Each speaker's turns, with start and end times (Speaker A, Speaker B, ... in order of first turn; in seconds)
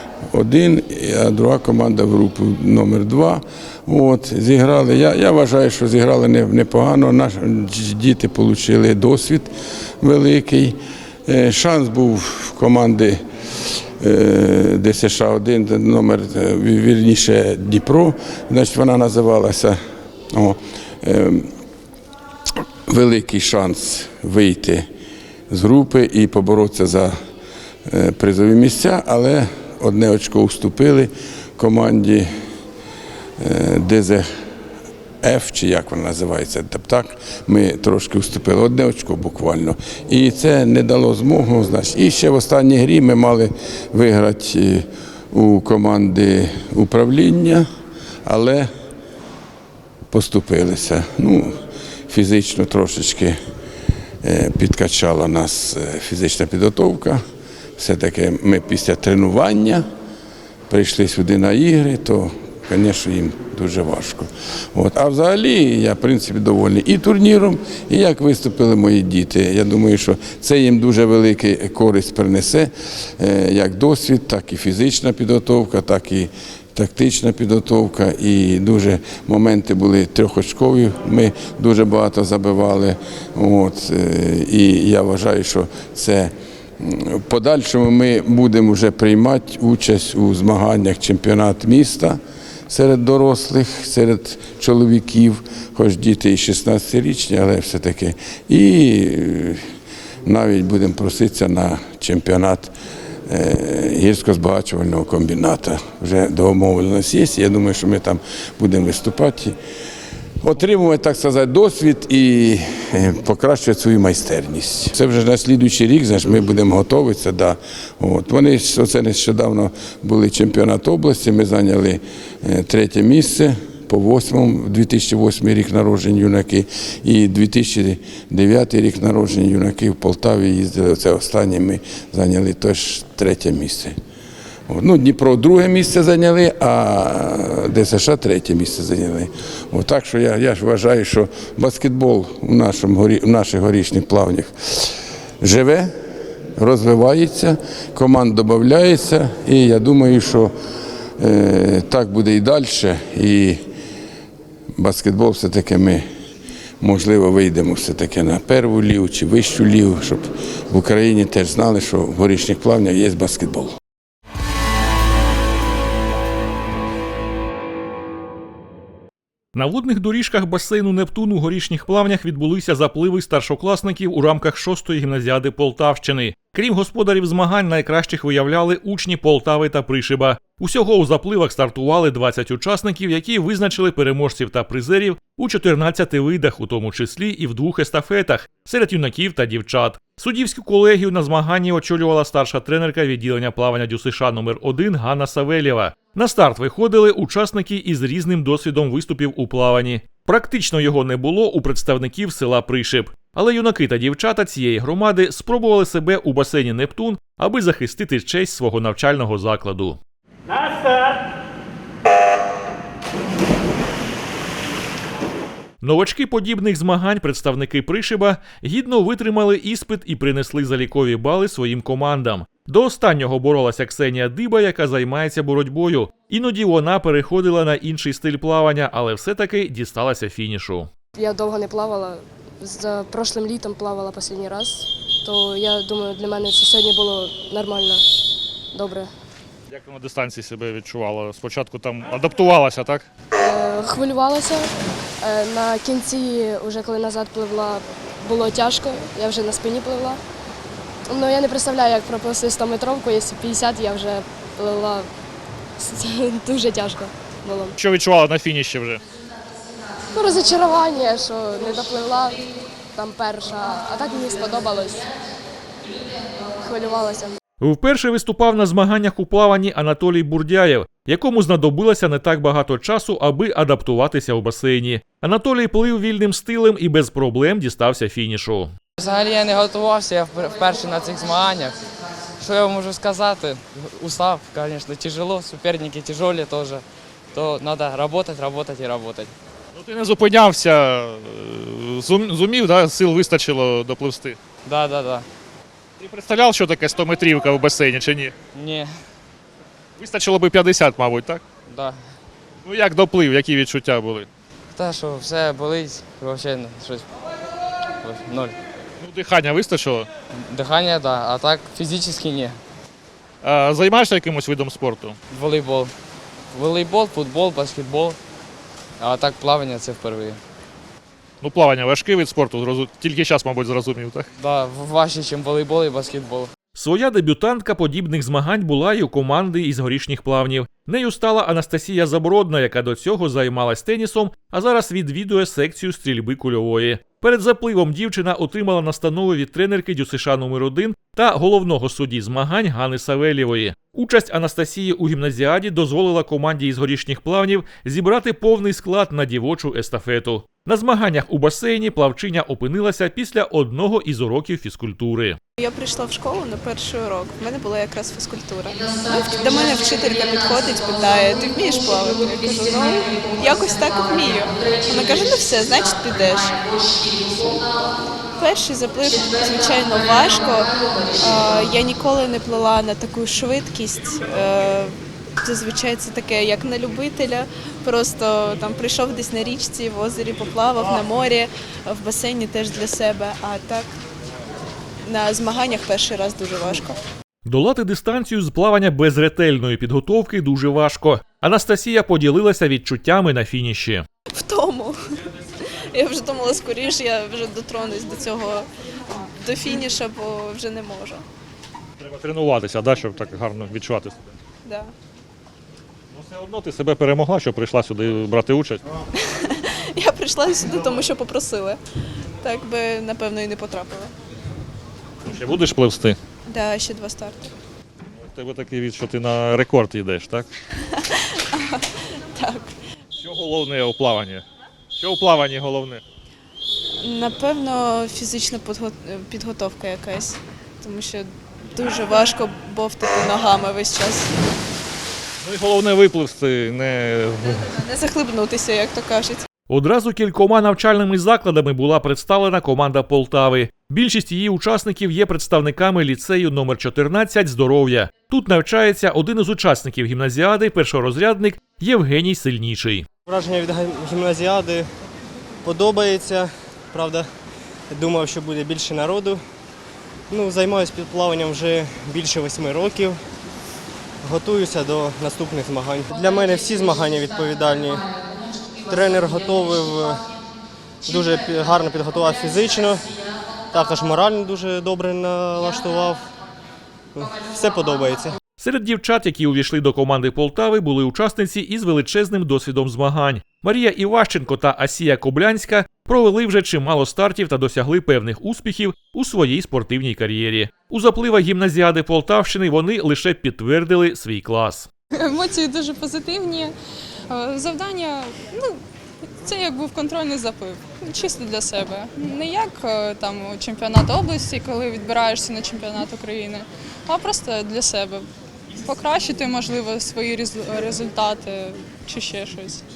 Speaker A: 0.3-13.2, 14.0-19.8, 20.3-21.5, 22.9-24.9, 25.5-27.1, 27.9-32.3, 33.4-34.3, 35.2-47.7, 48.2-48.7, 50.1-53.4, 54.2-57.2, 57.8-59.9, 60.7-99.6, 100.2-102.7, 103.3-109.6, 110.4-134.0, 134.7-144.9, 145.4-145.9, 146.6-150.5, 151.2-153.6, 154.8-156.1, 156.8-163.8
Speaker B: 169.6-210.0, 215.8-230.9, 267.6-278.7, 326.8-355.4, 387.5-394.1, 439.7-453.1, 478.6-494.9
Speaker C: 231.2-238.0, 238.7-239.1, 243.4-244.7, 245.2-250.2, 251.1-255.1, 255.8-257.7, 260.1-265.1, 266.6-267.3
Speaker D: 239.7-243.1, 257.8-259.0, 289.8-294.4, 296.0-298.3, 300.0-301.4, 302.6-304.3, 309.0-310.1, 313.4-315.2, 321.4-324.3, 402.0-404.2, 406.1-408.8, 415.3-416.2, 418.3-420.5, 423.2-424.4, 425.0-426.0, 435.4-437.7
Speaker E: 279.0-281.8, 282.4-289.3, 294.6-295.2, 298.5-298.9, 301.7-302.0, 304.7-307.1, 308.0-308.6, 310.4-312.6, 315.3-315.9, 316.5-318.2, 319.0-320.4, 324.4-326.5
Speaker F: 355.6-366.7, 368.4-383.9, 385.1-387.0, 394.3-395.0, 395.6-398.7, 399.4-401.2, 404.6-404.9, 409.2-411.8, 412.4-414.1, 416.5-417.5, 420.9-422.8, 427.0-434.3, 437.7-439.5
Speaker G: 453.3-454.9, 455.6-457.2, 457.9-459.4, 460.3-463.2, 464.2-468.1, 468.9-470.2, 471.1-473.1, 473.7-476.2, 477.1-478.4
Speaker H: 495.1-496.7, 497.3-498.8, 499.4-508.2, 508.8-512.8